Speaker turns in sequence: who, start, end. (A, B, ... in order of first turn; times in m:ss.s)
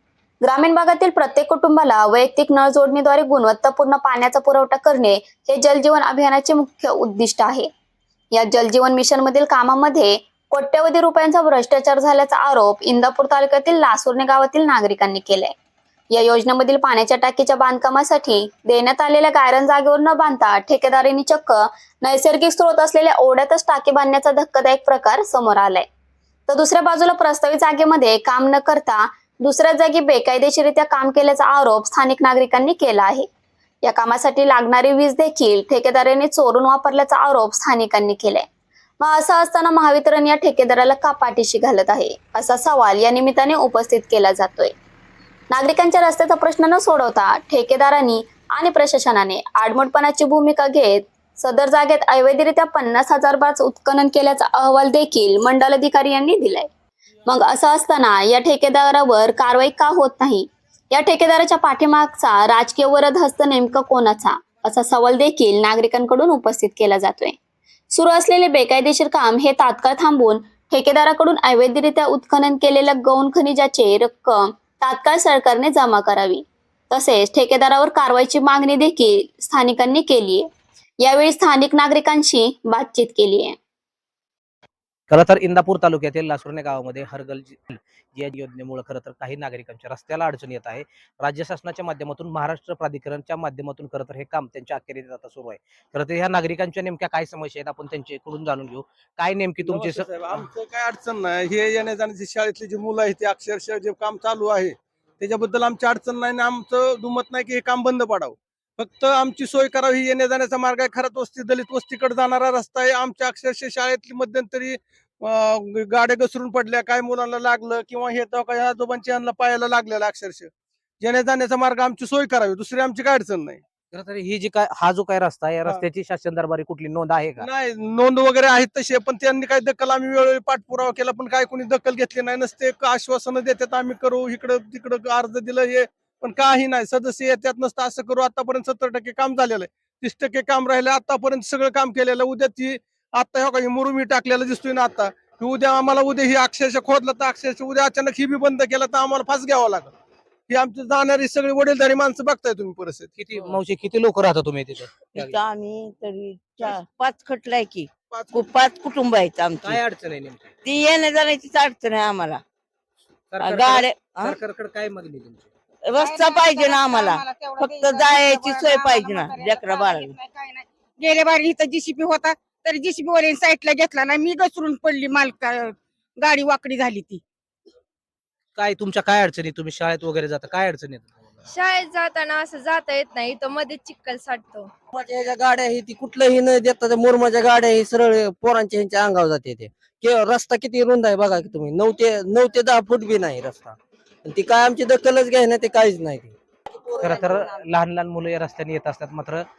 0:00.4-0:07.7 A
0:08.3-0:15.5 A
0:16.1-0:25.9 A
0:26.5-0:33.3 A
0:33.8-0:38.5 A
0:39.0-0:44.7 A
0:45.5-0:56.7 A
0:57.3-1:07.4 A
1:07.9-1:20.5 A
1:21.0-1:23.6 A
1:25.1-1:40.5 B
1:39.7-2:03.6 C
2:03.9-2:07.5 B
2:07.4-2:29.9 C
2:30.5-2:33.1 C
2:33.1-2:35.4 B
2:35.1-2:39.8 D
2:38.1-2:38.5 C
2:39.6-2:40.5 B
2:40.6-2:42.4 D
2:43.3-2:45.5 B
2:43.4-2:44.4 D
2:45.8-2:50.2 D
2:46.0-2:57.2 E
2:58.6-3:01.4 B
3:01.5-3:04.7 F
3:04.9-3:16.4 G
3:17.0-3:19.4 B